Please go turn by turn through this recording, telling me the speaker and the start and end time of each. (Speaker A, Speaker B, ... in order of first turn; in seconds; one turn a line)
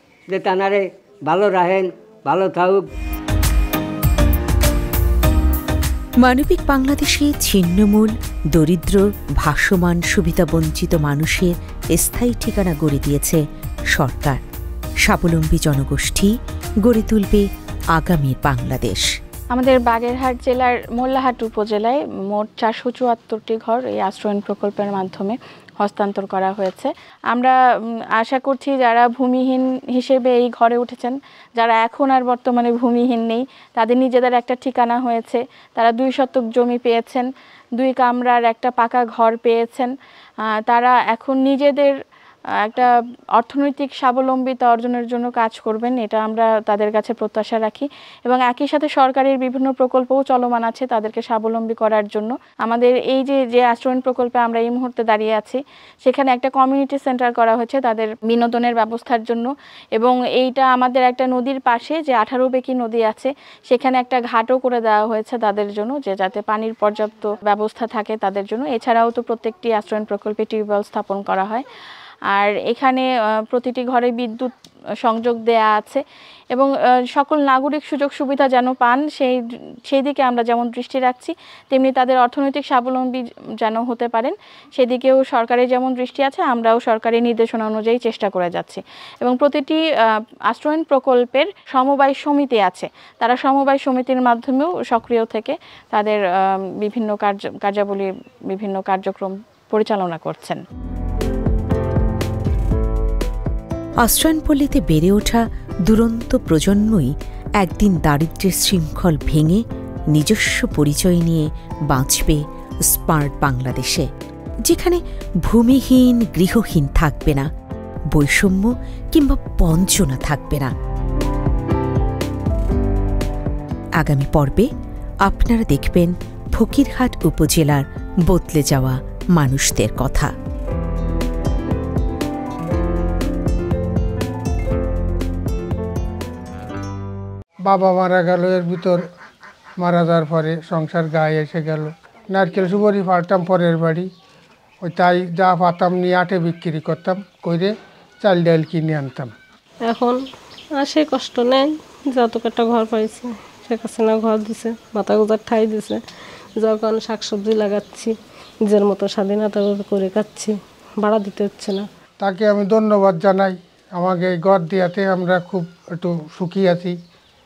Speaker A: 0.3-2.9
Speaker B: 6.2-14.4
Speaker B: 15.0-19.1
Speaker C: 19.5-27.6
Speaker C: 28.2-39.9
Speaker C: 40.7-42.0
Speaker C: 42.6-71.6
Speaker C: 72.3-76.0
Speaker C: 76.5-100.6
Speaker B: 104.0-114.1
Speaker B: 114.6-117.5
Speaker B: 118.1-120.7
Speaker B: 124.0-124.7
Speaker B: 125.2-130.3
Speaker D: 137.6-139.0
Speaker D: 139.8-144.1
Speaker D: 144.8-149.3
Speaker E: 149.8-150.2
Speaker E: 150.7-156.0
Speaker E: 156.6-158.1
Speaker E: 158.6-161.8
Speaker D: 162.2-167.0